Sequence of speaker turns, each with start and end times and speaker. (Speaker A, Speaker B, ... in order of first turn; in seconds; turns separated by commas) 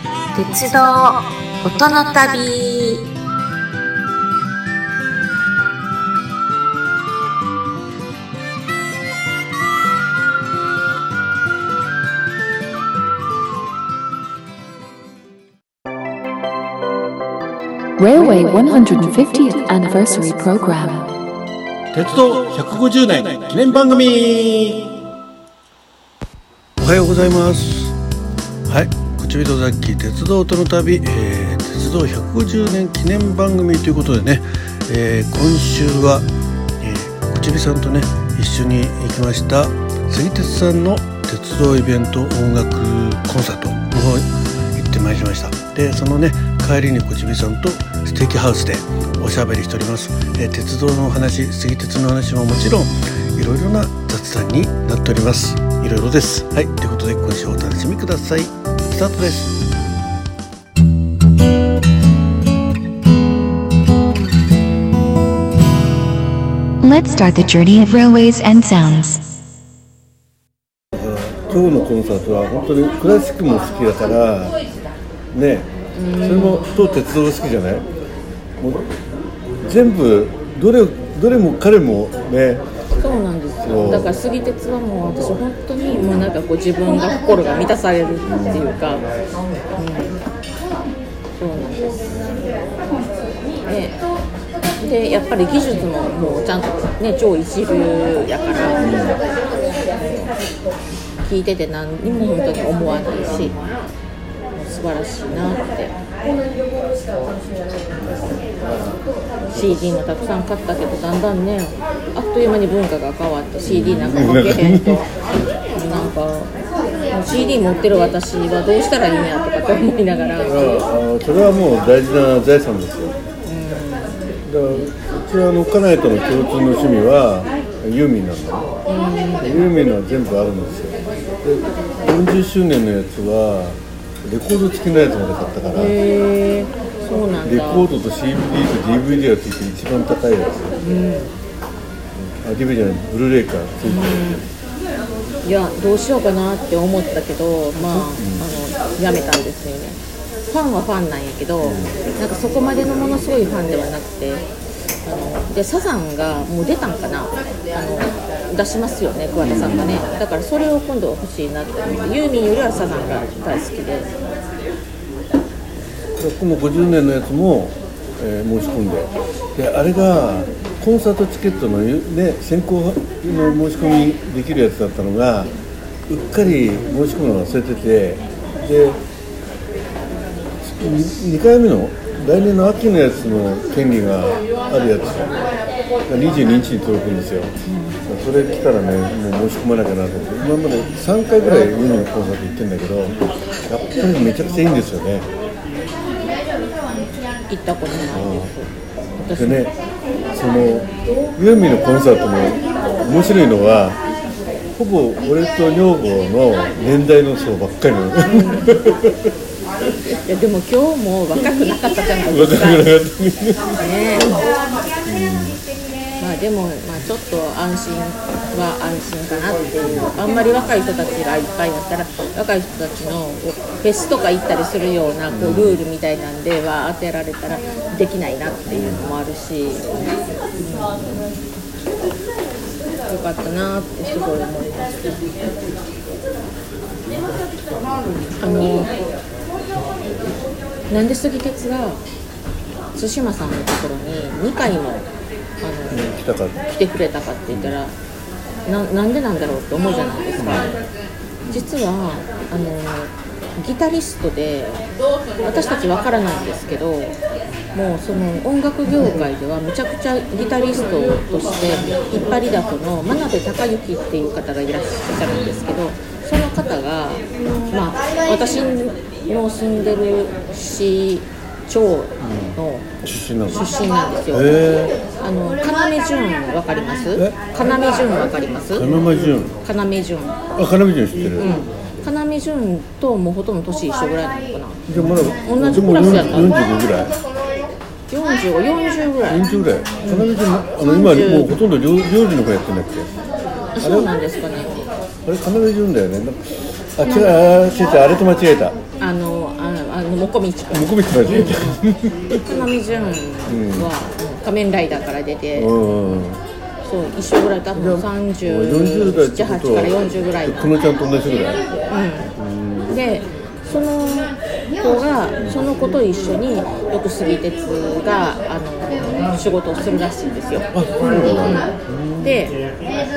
Speaker A: 0.3-3.0, Speaker B: 18.0-21.1, Speaker C: 21.9-24.9, Speaker C: 26.8-27.9, Speaker C: 28.7-36.2, Speaker C: 36.8-59.5, Speaker B: 66.8-69.2, Speaker C: 70.9-74.6, Speaker C: 75.3-75.7, Speaker D: 75.9-76.8, Speaker C: 76.2-77.8, Speaker C: 78.6-78.8, Speaker C: 79.6-82.6, Speaker D: 83.0-89.0, Speaker C: 83.6-84.1, Speaker C: 85.9-86.3, Speaker C: 88.2-88.7, Speaker D: 89.8-90.2, Speaker D: 91.4-92.2, Speaker D: 93.6-94.0, Speaker D: 94.8-99.0, Speaker C: 98.8-99.2, Speaker D: 100.0-100.3, Speaker D: 101.2-103.9, Speaker C: 103.3-103.7, Speaker D: 104.5-105.9, Speaker C: 108.0-109.0, Speaker D: 109.5-115.1, Speaker C: 113.6-115.0, Speaker D: 115.7-116.5, Speaker D: 117.1-120.8, Speaker C: 120.4-123.2, Speaker D: 123.5-124.2, Speaker C: 124.4-128.7, Speaker D: 128.9-129.7, Speaker C: 129.4-136.0, Speaker D: 135.7-137.9, Speaker C: 137.4-140.8, Speaker D: 140.8-141.3, Speaker C: 142.2-144.2, Speaker D: 143.8-144.5, Speaker D: 145.4-154.4, Speaker C: 147.7-148.4, Speaker C: 151.6-151.9, Speaker D: 155.0-164.1, Speaker C: 159.4-160.1, Speaker C: 161.8-162.1, Speaker C: 166.2-175.5, Speaker C: 176.1-179.0, Speaker C: 180.6-185.3, Speaker C: 186.1-187.5, Speaker D: 187.6-188.0, Speaker C: 188.0-195.3, Speaker D: 197.5-199.7, Speaker C: 198.1-198.5, Speaker C: 199.3-199.7, Speaker C: 200.3-204.0, Speaker C: 204.8-209.3, Speaker D: 208.2-208.8, Speaker D: 210.1-212.9, Speaker C: 212.3-213.6, Speaker D: 213.7-214.4, Speaker C: 215.1-215.6, Speaker D: 216.2-229.9, Speaker C: 225.3-225.8, Speaker C: 228.7-229.1, Speaker D: 230.6-231.2, Speaker D: 233.1-235.2, Speaker D: 238.4-238.9, Speaker D: 240.9-242.0, Speaker D: 242.9-245.1, Speaker D: 245.6-247.9, Speaker C: 245.9-246.6, Speaker C: 247.5-247.8, Speaker D: 248.7-250.7, Speaker C: 250.4-250.8, Speaker D: 251.5-254.8, Speaker D: 255.4-257.1, Speaker D: 257.7-272.9, Speaker C: 258.9-259.2, Speaker C: 265.2-265.6, Speaker C: 272.2-273.7, Speaker D: 273.5-274.6, Speaker C: 274.3-274.9, Speaker D: 275.2-278.9, Speaker C: 278.7-279.6, Speaker D: 279.6-280.4, Speaker C: 280.6-281.5, Speaker D: 281.4-286.6, Speaker C: 284.9-287.1, Speaker D: 288.1-289.5, Speaker C: 289.3-293.1, Speaker D: 290.0-290.3, Speaker D: 290.8-291.5, Speaker D: 293.7-294.9, Speaker C: 293.8-294.1, Speaker C: 295.2-296.4, Speaker C: 296.9-298.8, Speaker D: 299.0-301.8, Speaker C: 300.7-302.4, Speaker D: 302.4-306.1, Speaker C: 303.5-303.9, Speaker C: 305.6-306.4, Speaker D: 306.8-310.7, Speaker C: 307.7-311.6, Speaker D: 311.9-312.3, Speaker C: 312.4-313.0, Speaker D: 312.9-320.7, Speaker C: 320.7-322.4, Speaker D: 321.4-322.6